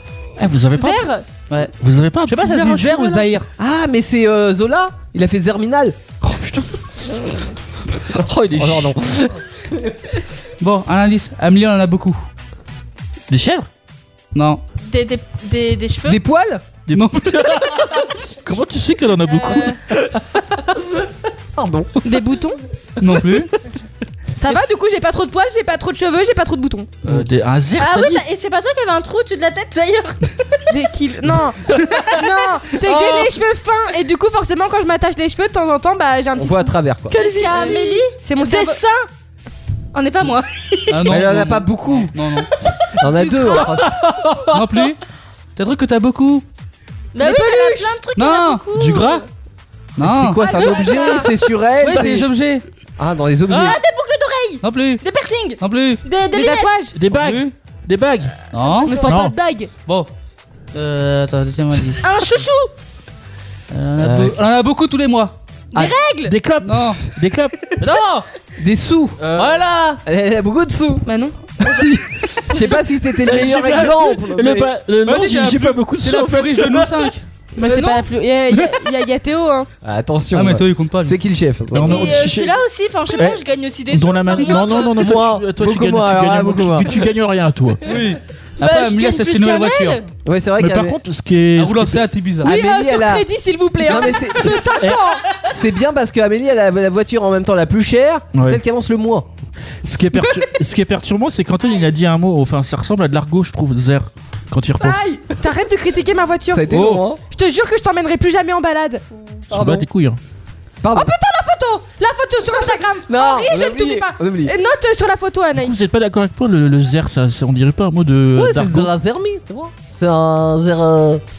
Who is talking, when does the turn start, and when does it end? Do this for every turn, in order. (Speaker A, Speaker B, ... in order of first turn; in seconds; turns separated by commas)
Speaker A: 0.4-1.1, Speaker B: 0.7-1.2, Speaker A: 1.8-3.2, Speaker C: 2.2-3.5, Speaker D: 3.6-7.1, Speaker D: 8.1-9.8, Speaker A: 8.2-9.3, Speaker C: 10.6-12.2, Speaker A: 13.3-13.7, Speaker C: 14.3-14.6, Speaker E: 14.8-16.2, Speaker D: 16.0-16.6, Speaker A: 16.9-20.5, Speaker C: 16.9-18.0, Speaker E: 19.3-19.7, Speaker D: 21.6-22.0, Speaker B: 22.0-22.6, Speaker C: 23.0-23.5, Speaker B: 24.4-26.9, Speaker A: 27.0-28.2, Speaker E: 27.8-30.3, Speaker B: 30.7-38.8, Speaker A: 32.9-33.2, Speaker D: 36.4-37.1, Speaker E: 37.1-39.1, Speaker E: 39.9-41.1, Speaker C: 40.9-42.5, Speaker D: 41.1-42.1, Speaker D: 42.6-44.0, Speaker C: 43.2-43.6, Speaker A: 43.8-44.6, Speaker C: 44.5-45.0, Speaker C: 45.5-46.4, Speaker E: 47.1-49.2, Speaker B: 47.2-47.9, Speaker C: 48.1-48.6, Speaker A: 48.7-49.2, Speaker C: 50.0-50.6, Speaker D: 50.0-52.3, Speaker B: 50.6-51.3, Speaker E: 50.6-51.2, Speaker C: 51.8-52.6, Speaker D: 53.0-53.8, Speaker E: 53.5-56.7, Speaker C: 54.6-55.0, Speaker C: 55.6-56.0, Speaker B: 56.3-56.9, Speaker A: 56.9-58.3, Speaker C: 57.1-57.5, Speaker C: 58.5-59.1, Speaker B: 58.8-59.7, Speaker A: 59.0-59.3, Speaker C: 60.7-62.0, Speaker E: 62.0-62.7, Speaker C: 63.7-65.3, Speaker D: 64.0-64.3, Speaker E: 65.7-66.3, Speaker A: 65.8-67.7, Speaker C: 66.6-67.0, Speaker C: 67.8-68.3, Speaker D: 68.6-69.2, Speaker A: 69.2-69.6, Speaker C: 69.3-70.0, Speaker D: 70.0-71.0, Speaker D: 71.6-74.7, Speaker A: 73.2-77.1, Speaker C: 75.0-78.0, Speaker B: 77.5-79.7, Speaker D: 79.8-82.2, Speaker C: 80.3-81.2, Speaker A: 81.7-82.6, Speaker E: 81.8-85.0, Speaker A: 83.1-87.9, Speaker C: 84.4-84.8, Speaker D: 84.9-86.9, Speaker C: 87.8-90.0, Speaker E: 88.6-90.0, Speaker D: 90.2-91.0, Speaker A: 90.6-92.1, Speaker C: 91.5-92.5, Speaker D: 92.4-94.7, Speaker B: 92.4-95.2, Speaker A: 94.8-95.1, Speaker D: 95.5-99.3, Speaker A: 98.3-98.6, Speaker A: 99.8-105.0, Speaker D: 104.8-105.4, Speaker B: 105.4-109.0, Speaker D: 106.5-107.2, Speaker A: 106.7-107.0, Speaker D: 109.5-109.9, Speaker A: 109.5-110.2, Speaker D: 110.8-111.1, Speaker B: 110.9-115.8, Speaker D: 113.1-114.5, Speaker A: 115.5-118.9, Speaker D: 118.3-121.2